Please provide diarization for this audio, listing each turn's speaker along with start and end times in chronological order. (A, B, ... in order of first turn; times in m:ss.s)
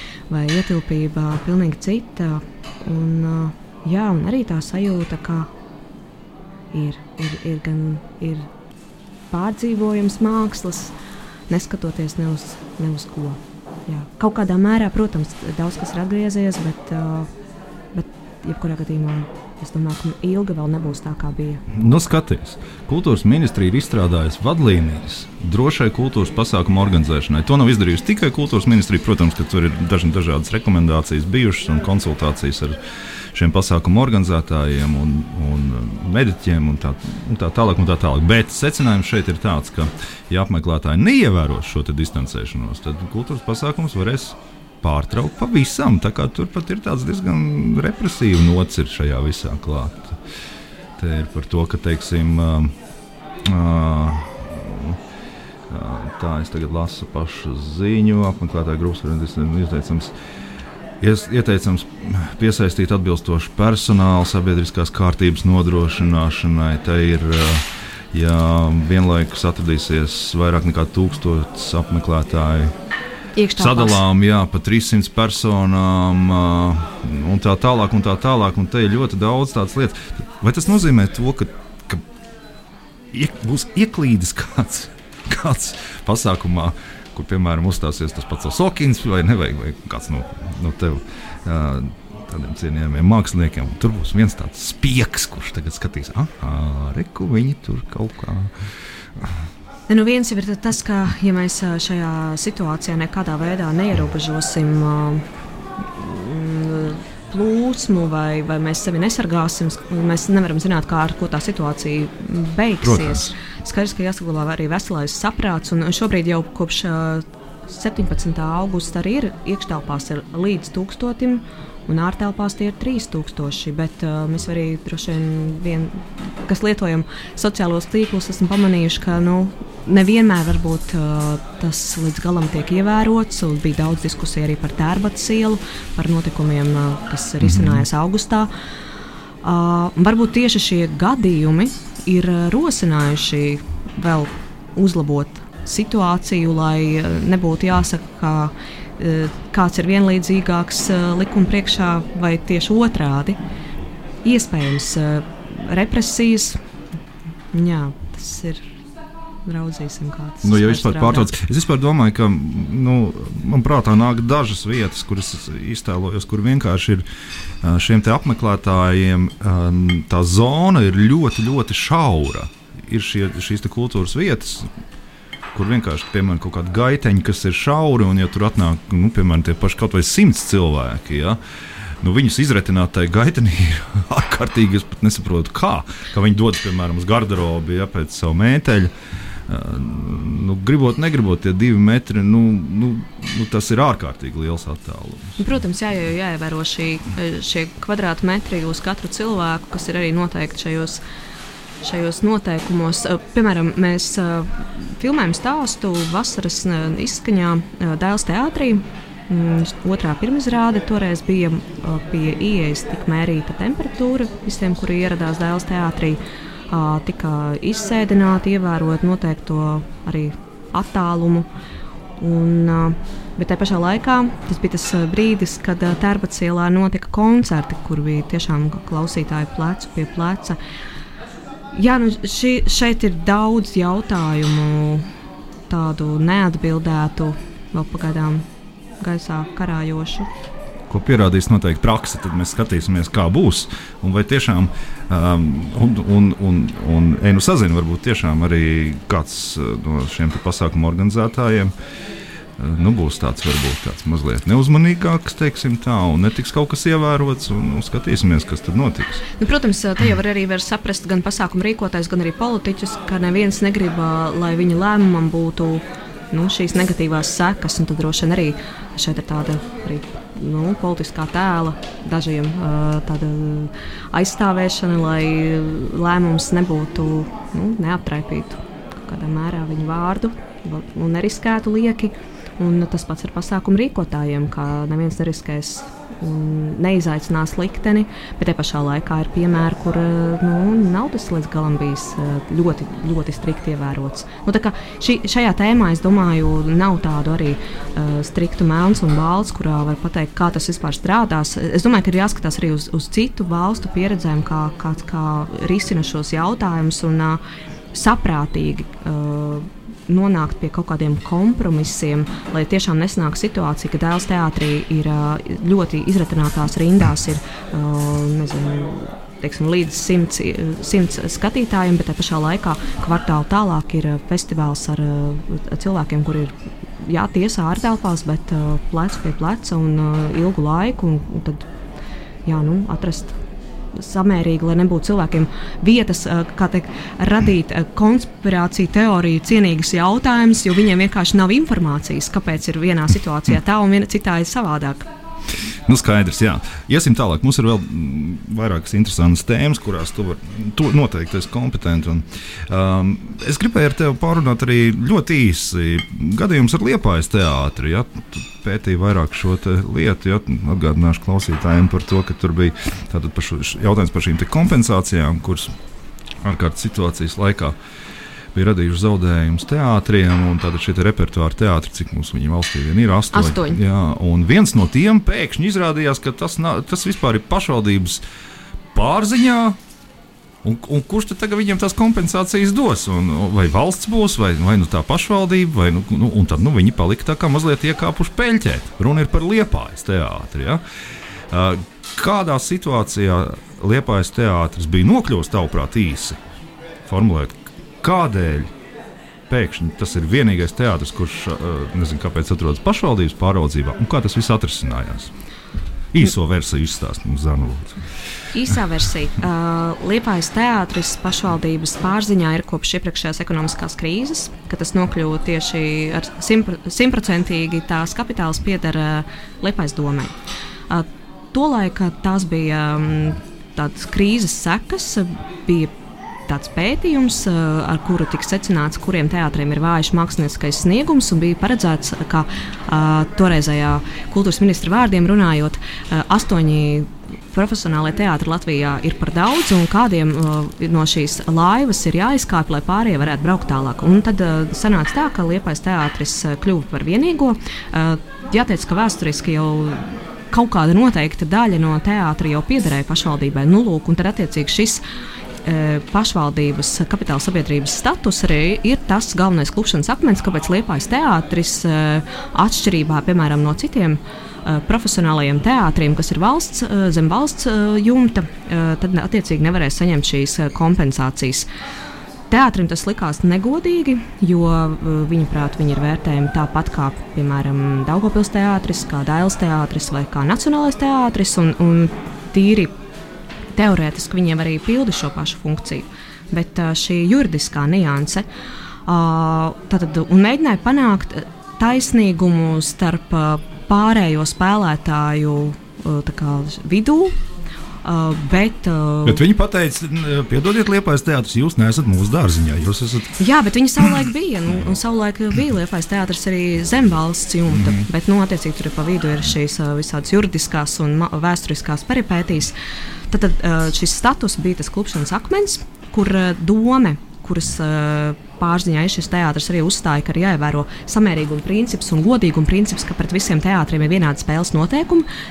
0:00.3-0:05.5 A
0:06.7-0:08.5 A
0:09.3-0:10.9 A
0:11.5-0:17.3 A
0:17.9-0:21.6 A
0:21.7-0:32.8 B
0:33.3-0:50.2 B
0:51.0-0:52.8 B
0:53.4-0:55.0 B
0:55.7-1:00.1 B
1:01.0-1:12.7 B
1:13.4-1:14.0 A
1:13.6-1:22.0 B
1:23.1-1:39.4 B
1:39.9-1:45.2 A
1:45.9-2:18.5 A
1:52.8-1:53.2 B
2:17.4-2:17.8 B
2:19.4-2:33.4 A
2:34.2-2:36.6 A
2:37.5-2:38.7 A
2:39.4-2:41.3 A
2:40.4-2:47.0 B
2:47.6-2:54.7 B
2:55.5-3:01.4 B
3:02.0-3:08.9 B
3:09.5-3:15.4 B
3:15.4-3:21.0 A
3:21.8-3:41.5 A
3:42.2-3:50.6 A
3:51.7-3:55.1 A
3:55.7-3:58.4 A
3:59.0-4:00.3 A
4:00.9-4:11.7 B
4:12.6-4:19.2 B
4:19.4-5:07.4 A
5:07.9-5:31.7 A
5:32.4-5:33.4 A
5:33.9-5:45.1 A
5:45.8-6:05.7 B
6:06.4-6:07.7 B
6:08.5-6:18.2 B
6:13.3-6:13.8 A
6:18.9-6:19.8 B
6:20.6-6:30.8 B
6:31.5-6:36.4 B
6:37.0-6:38.7 B
6:39.5-6:45.3 B
6:46.1-6:48.0 B
6:48.5-7:00.4 A
7:00.9-7:05.9 A
7:06.5-7:35.0 A
7:35.6-7:51.7 A
7:52.5-8:02.9 A
8:03.8-8:08.4 A
8:09.1-8:17.4 A
8:18.0-8:19.4 A
8:19.2-8:23.4 B
8:23.4-8:32.8 A
8:27.7-8:28.1 B
8:33.3-8:45.3 A